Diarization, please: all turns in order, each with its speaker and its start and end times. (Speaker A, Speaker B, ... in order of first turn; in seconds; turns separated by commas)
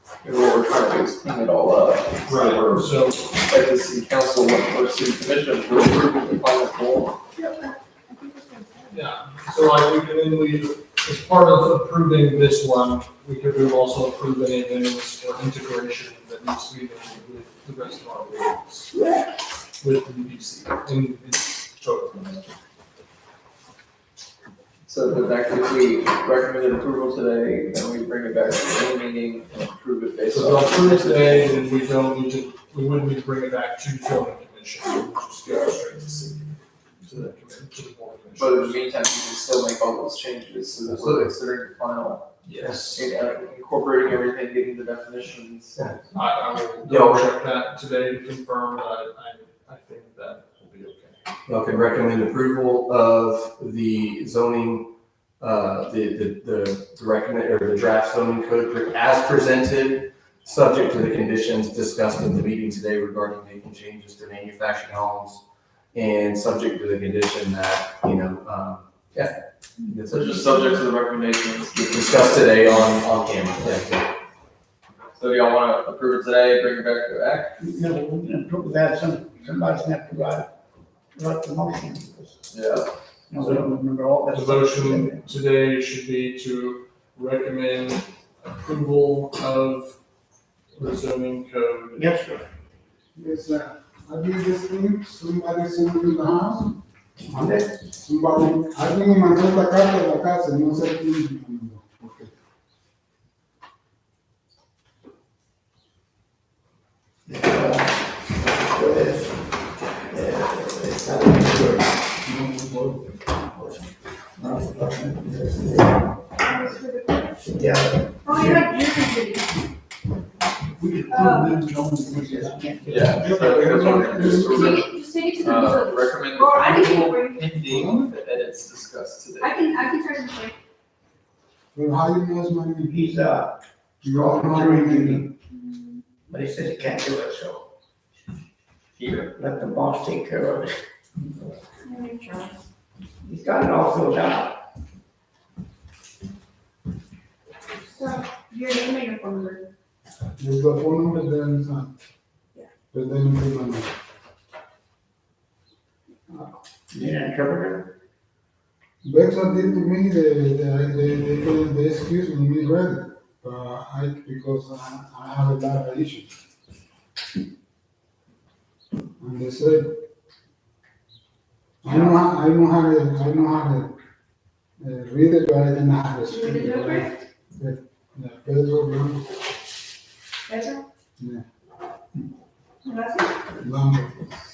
Speaker A: 0.2-7.2, Speaker B: 2.3-3.2, Speaker C: 7.4-9.0, Speaker B: 8.9-18.9, Speaker D: 18.9-19.3, Speaker B: 19.8-22.4, Speaker A: 24.8-31.5, Speaker B: 30.3-36.5, Speaker B: 37.0-38.8, Speaker A: 38.4-45.9, Speaker E: 40.9-41.3, Speaker B: 42.4-43.1, Speaker B: 46.1-51.2, Speaker E: 46.8-47.3, Speaker E: 51.5-65.4, Speaker E: 65.9-70.7, Speaker A: 70.1-73.0, Speaker E: 71.9-74.1, Speaker A: 75.2-77.5, Speaker D: 77.6-80.5, Speaker D: 81.1-82.3, Speaker A: 82.5-82.9, Speaker D: 83.3-85.2, Speaker B: 83.4-83.7, Speaker B: 84.3-90.0, Speaker B: 90.7-92.1, Speaker D: 91.9-92.5, Speaker F: 93.1-96.8, Speaker F: 97.3-102.3, Speaker D: 97.3-97.7, Speaker D: 107.3-109.4, Speaker D: 110.1-112.0, Speaker F: 112.2-113.1, Speaker D: 114.4-116.0, Speaker C: 116.4-117.4, Speaker D: 117.5-118.8, Speaker C: 118.2-119.5, Speaker F: 120.8-124.7, Speaker C: 121.1-121.5, Speaker D: 122.1-124.8, Speaker A: 122.9-129.9, Speaker C: 124.5-127.5, Speaker F: 127.7-128.1, Speaker C: 129.4-130.5, Speaker F: 131.7-132.9, Speaker D: 132.9-135.3, Speaker F: 134.0-135.3, Speaker D: 136.3-137.6, Speaker A: 139.0-139.3, Speaker D: 139.3-140.7, Speaker C: 141.8-142.5, Speaker D: 143.2-144.6, Speaker C: 147.9-149.7, Speaker F: 150.4-151.9, Speaker F: 152.9-153.9, Speaker D: 156.9-157.9, Speaker F: 159.0-166.3, Speaker F: 169.2-170.0, Speaker F: 171.8-173.9, Speaker F: 174.8-179.3, Speaker C: 176.3-177.1, Speaker C: 180.5-180.8, Speaker F: 181.2-181.4, Speaker C: 182.8-183.3, Speaker F: 183.6-184.3